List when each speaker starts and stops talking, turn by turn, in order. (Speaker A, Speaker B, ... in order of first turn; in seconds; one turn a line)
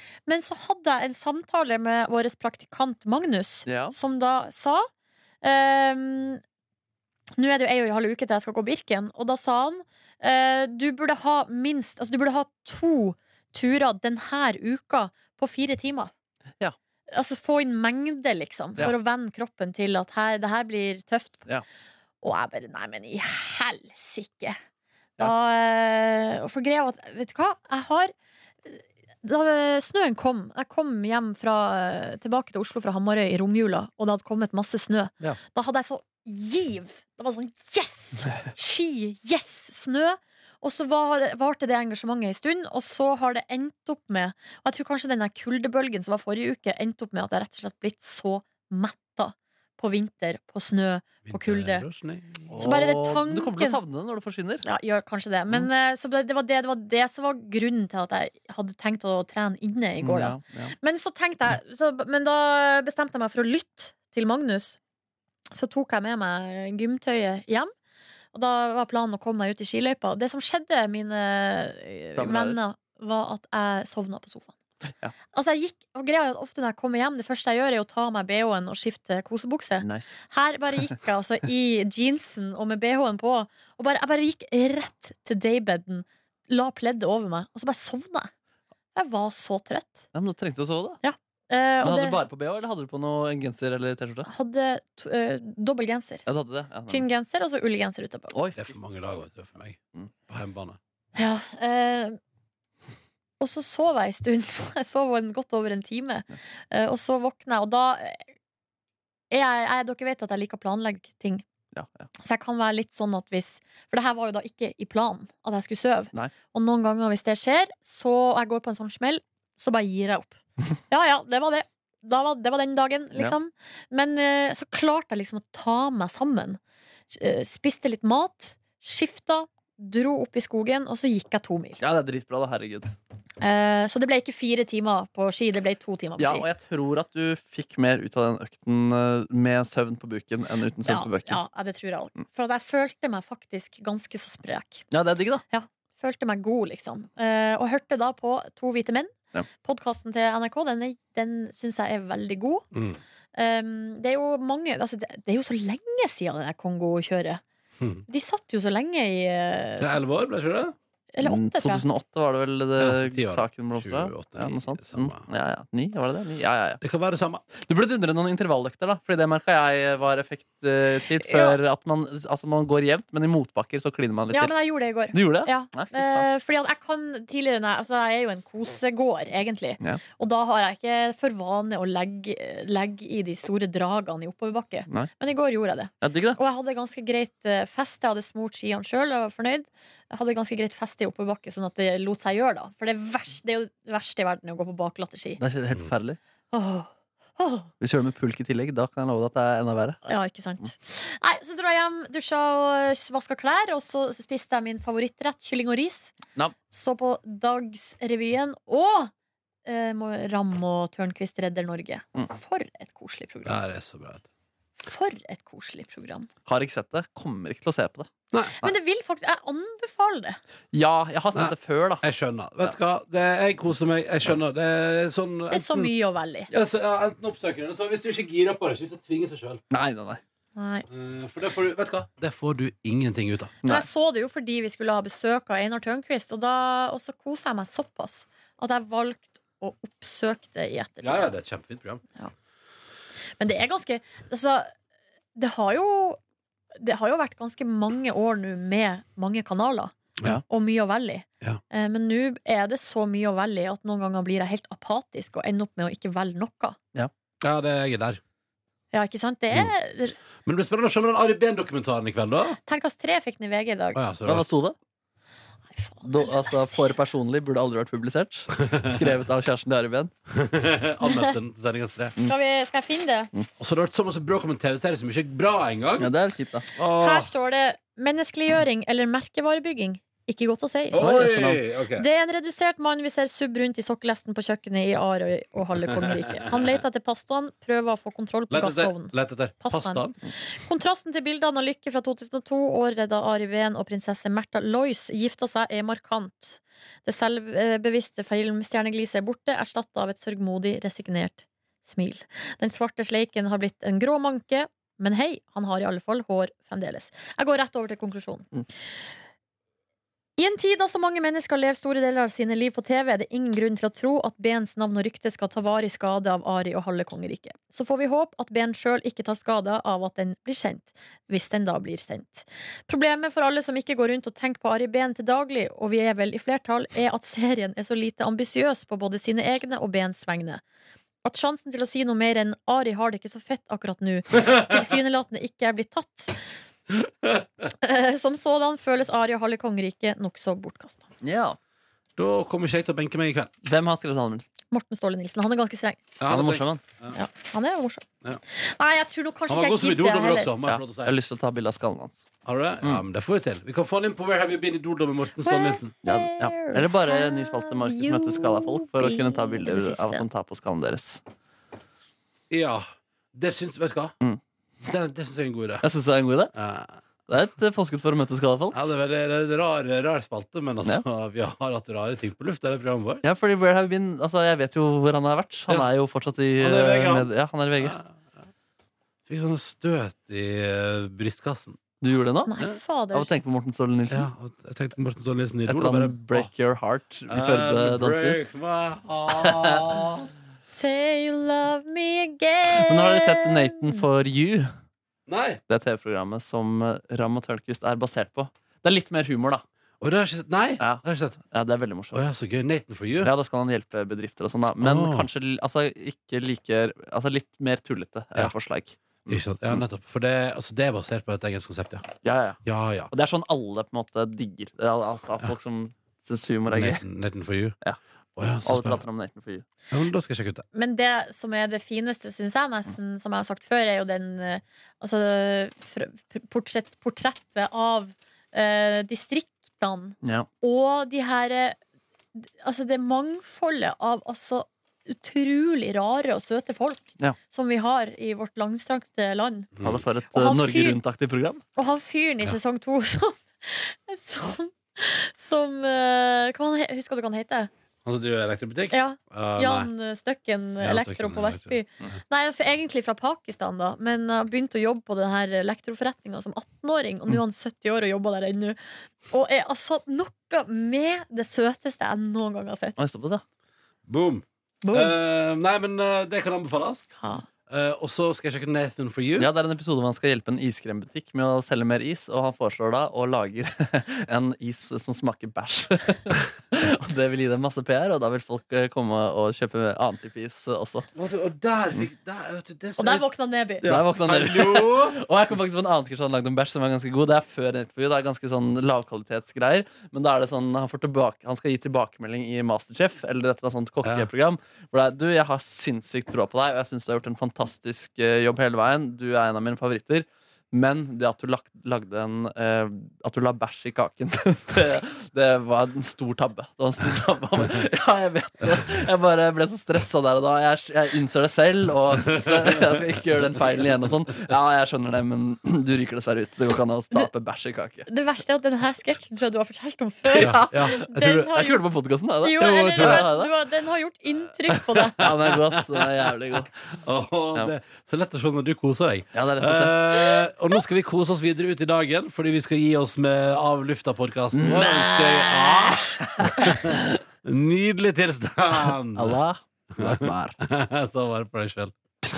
Speaker A: 0.3-4.9
Speaker B: 3.7-4.0
Speaker A: 5.4-6.4
Speaker A: 7.4-16.1
Speaker A: 17.1-21.5
Speaker A: 22.2-24.6
Speaker A: 25.2-28.1
Speaker A: 28.6-51.9
Speaker C: 51.3-52.5
Speaker B: 52.5-54.6
Speaker A: 52.6-53.8
Speaker A: 54.6-64.8
Speaker B: 60.0-60.8
Speaker A: 65.5-67.7
Speaker A: 68.3-74.6
Speaker B: 72.2-72.6
Speaker A: 75.3-88.3
Speaker B: 79.8-80.2
Speaker A: 89.0-90.0
Speaker B: 90.1-91.0
Speaker A: 91.0-92.2
Speaker B: 91.8-94.3
Speaker A: 94.3-96.2
Speaker B: 96.3-97.1
Speaker A: 96.9-98.3
Speaker B: 98.3-98.7
Speaker C: 98.6-99.8
Speaker C: 100.3-100.8
Speaker A: 101.2-102.2
Speaker A: 103.4-108.3
Speaker A: 109.3-111.4
Speaker B: 111.7-112.1
Speaker A: 112.2-126.6
Speaker A: 127.1-131.8
Speaker B: 131.8-132.9
Speaker A: 133.4-136.5
Speaker B: 136.2-141.4
Speaker A: 140.8-144.9
Speaker B: 144.9-145.4
Speaker A: 145.5-149.1
Speaker A: 149.6-152.7
Speaker C: 152.7-153.0
Speaker A: 153.3-157.4
Speaker C: 157.8-158.1
Speaker A: 158.1-160.1
Speaker C: 159.8-160.7
Speaker A: 161.1-161.8
Speaker B: 161.2-166.8
Speaker C: 162.8-165.2
Speaker C: 166.8-167.4
Speaker B: 167.5-174.6
Speaker A: 171.2-171.6
Speaker A: 174.3-195.4
Speaker B: 175.1-176.3
Speaker B: 186.0-186.4
Speaker B: 195.4-196.2
Speaker A: 196.5-197.7
Speaker B: 197.8-200.0
Speaker A: 200.0-206.2
Speaker A: 206.7-209.1
Speaker A: 209.7-213.6
Speaker C: 213.4-214.3
Speaker A: 214.8-216.3
Speaker B: 216.5-218.1
Speaker A: 218.6-220.4
Speaker B: 220.7-222.1
Speaker C: 221.3-225.9
Speaker A: 225.5-226.5
Speaker C: 226.5-229.6
Speaker B: 229.7-230.2
Speaker A: 230.6-230.9
Speaker C: 230.9-233.6
Speaker A: 233.7-241.3
Speaker C: 241.0-242.0
Speaker A: 243.4-244.7
Speaker A: 245.3-246.2
Speaker A: 246.8-249.9
Speaker A: 250.5-256.8
Speaker C: 257.4-258.2
Speaker A: 258.9-260.2
Speaker C: 260.4-262.6
Speaker A: 262.7-264.0
Speaker C: 263.9-264.5
Speaker B: 264.3-264.8
Speaker A: 265.7-267.0
Speaker B: 266.0-270.1
Speaker C: 270.3-272.1
Speaker A: 271.0-271.4
Speaker A: 272.2-273.3
Speaker C: 273.6-276.1
Speaker B: 276.0-276.7
Speaker C: 276.8-277.3
Speaker A: 276.9-281.3
Speaker C: 280.9-282.1
Speaker B: 281.3-281.6
Speaker A: 281.8-308.5
Speaker C: 285.8-286.6
Speaker C: 288.5-290.1
Speaker A: 310.4-330.6
Speaker A: 331.2-336.4
Speaker C: 336.9-337.4
Speaker A: 337.7-341.1
Speaker B: 341.2-341.6
Speaker C: 342.2-343.5
Speaker B: 343.6-344.5
Speaker A: 344.7-346.0
Speaker C: 346.2-347.2
Speaker B: 346.3-346.8
Speaker A: 347.1-350.5
Speaker C: 349.5-351.1
Speaker B: 350.7-352.2
Speaker C: 352.4-355.9
Speaker A: 355.4-360.2
Speaker B: 356.0-361.2
Speaker C: 362.5-364.1
Speaker C: 364.8-365.9
Speaker B: 365.8-366.5
Speaker C: 366.5-367.0
Speaker B: 367.3-368.8
Speaker C: 368.7-373.2
Speaker B: 373.2-378.0
Speaker C: 376.6-378.1
Speaker C: 379.3-381.8
Speaker B: 382.0-382.5
Speaker A: 382.5-383.4
Speaker B: 383.1-384.3
Speaker C: 384.1-386.5
Speaker B: 385.7-388.5
Speaker C: 387.3-390.3
Speaker B: 389.3-389.8
Speaker A: 390.6-394.0
Speaker B: 392.7-394.7
Speaker C: 395.3-395.6
Speaker B: 395.7-399.6
Speaker C: 400.0-401.4
Speaker B: 400.8-402.3
Speaker C: 402.1-403.3
Speaker B: 403.2-409.8
Speaker C: 404.8-405.3
Speaker C: 409.3-412.1
Speaker B: 412.2-417.0
Speaker C: 412.6-413.1
Speaker C: 416.7-417.8
Speaker C: 418.4-419.0
Speaker B: 418.6-419.6
Speaker C: 419.9-420.7
Speaker A: 420.7-431.8
Speaker B: 430.2-430.5
Speaker A: 432.4-439.7
Speaker C: 439.8-440.0
Speaker B: 439.8-441.6
Speaker A: 440.3-441.0
Speaker A: 441.8-447.7
Speaker C: 448.1-449.9
Speaker A: 448.9-463.0
Speaker C: 450.8-451.8
Speaker B: 463.0-463.4
Speaker C: 464.1-467.1
Speaker A: 464.8-465.2
Speaker A: 467.2-467.5
Speaker C: 467.7-469.5
Speaker B: 469.4-481.1
Speaker C: 481.1-483.3
Speaker A: 483.0-483.9
Speaker C: 483.8-485.2
Speaker B: 483.9-518.1
Speaker C: 494.0-494.3
Speaker C: 512.1-512.9
Speaker A: 518.1-521.8
Speaker B: 520.2-523.5
Speaker C: 520.4-521.3
Speaker A: 522.4-525.3
Speaker C: 523.0-523.3
Speaker C: 524.7-526.1
Speaker B: 525.2-526.7
Speaker C: 526.6-539.4
Speaker B: 529.3-530.4
Speaker B: 534.5-535.4
Speaker B: 536.2-537.2
Speaker B: 538.8-540.6
Speaker C: 540.0-541.9